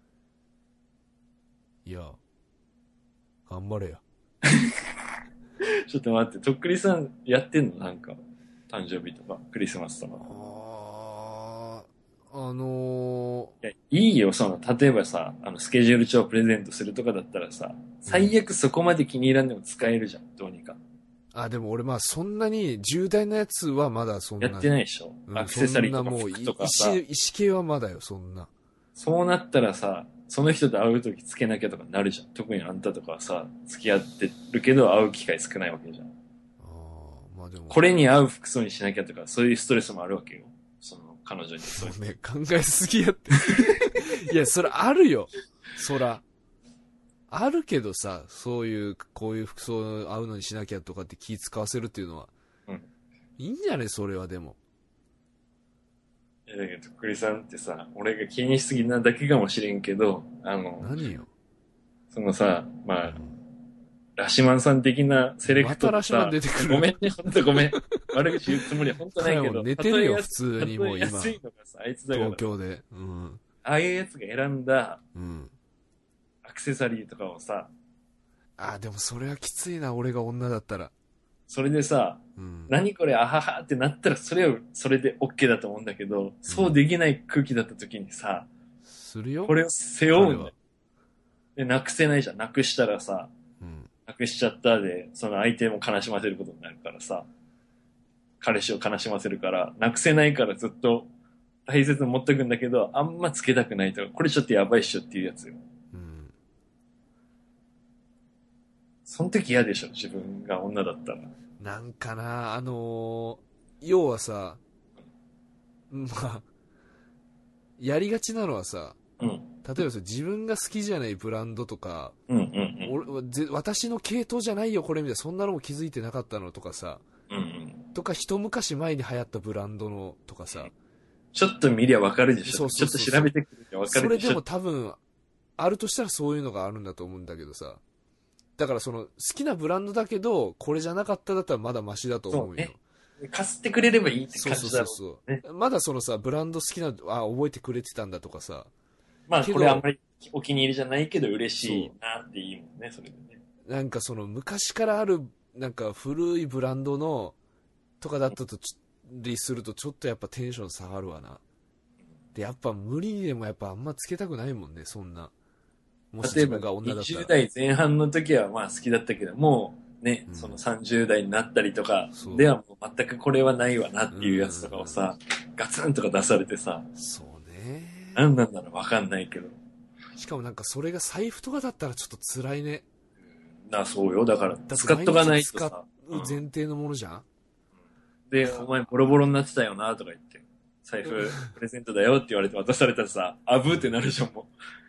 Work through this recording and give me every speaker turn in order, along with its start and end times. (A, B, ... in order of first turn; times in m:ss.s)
0:01.8-0:02.2 A
0:03.5-0:04.0 A
0:04.4-0:05.0 B
0:05.6-0:08.2 B
0:08.7-0:10.2 B
0:10.2-0:13.5 A
0:13.6-0:20.8 B
0:18.1-0:18.3 A
0:21.3-0:24.7 A
0:24.4-0:27.0 B
0:25.3-0:28.5 A
0:29.0-0:36.1 B
0:36.6-0:37.9 A
0:37.7-0:42.0 B
0:41.7-0:46.2 A
0:43.5-0:43.8 B
0:47.3-0:52.3 A
0:53.4-0:54.6 A
0:56.5-1:00.9 B
1:00.8-1:01.3 A
1:02.1-1:03.2 B
1:03.0-1:03.4 A
1:04.2-1:12.5 B
1:05.4-1:07.0 A
1:07.5-1:08.6 A
1:09.2-1:11.4 A
1:12.1-1:13.4 A
1:13.6-1:15.0 B
1:15.1-1:15.5 A
1:16.4-1:17.7 B
1:18.6-1:20.9 A
1:21.5-1:28.5 B
1:22.4-1:22.7 A
1:26.5-1:26.8 A
1:28.9-1:29.6 A
1:29.4-1:30.5 B
1:30.1-1:30.5 A
1:31.6-1:33.3 B
1:33.6-1:33.9 A
1:34.1-1:37.3 B
1:38.4-1:41.1 B
1:41.6-1:45.6 B
1:45.9-1:46.3 A
1:49.0-1:51.3 B
1:51.6-1:54.6 A
1:55.9-1:56.4 A
1:57.8-1:59.0 A
1:59.2-1:59.5 B
1:59.6-2:02.2 A
2:02.3-2:02.9 B
2:02.8-2:07.0 A
2:07.3-2:07.8 B
2:07.9-2:10.7 A
2:11.3-2:14.4 B
2:12.4-2:13.3 A
2:13.9-2:15.0 A
2:15.6-2:17.8 A
2:18.6-2:22.8 A
2:22.3-2:25.4 B
2:24.3-2:28.7 A
2:29.3-2:33.4 B
2:29.4-2:29.8 A
2:31.6-2:31.9 A
2:33.6-2:37.4 A
2:38.0-2:41.4 A
2:42.3-2:45.3 A
2:46.1-2:47.3 A
2:46.2-2:56.9 B
2:50.3-2:50.6 A
2:52.1-2:52.5 A
2:54.1-2:55.0 A
2:56.9-2:58.2 A
2:58.2-2:59.6 B
3:00.2-3:02.8 A
3:03.6-3:06.4 B
3:04.7-3:07.2 A
3:08.3-3:14.5 B
3:08.4-3:08.7 A
3:11.1-3:11.5 A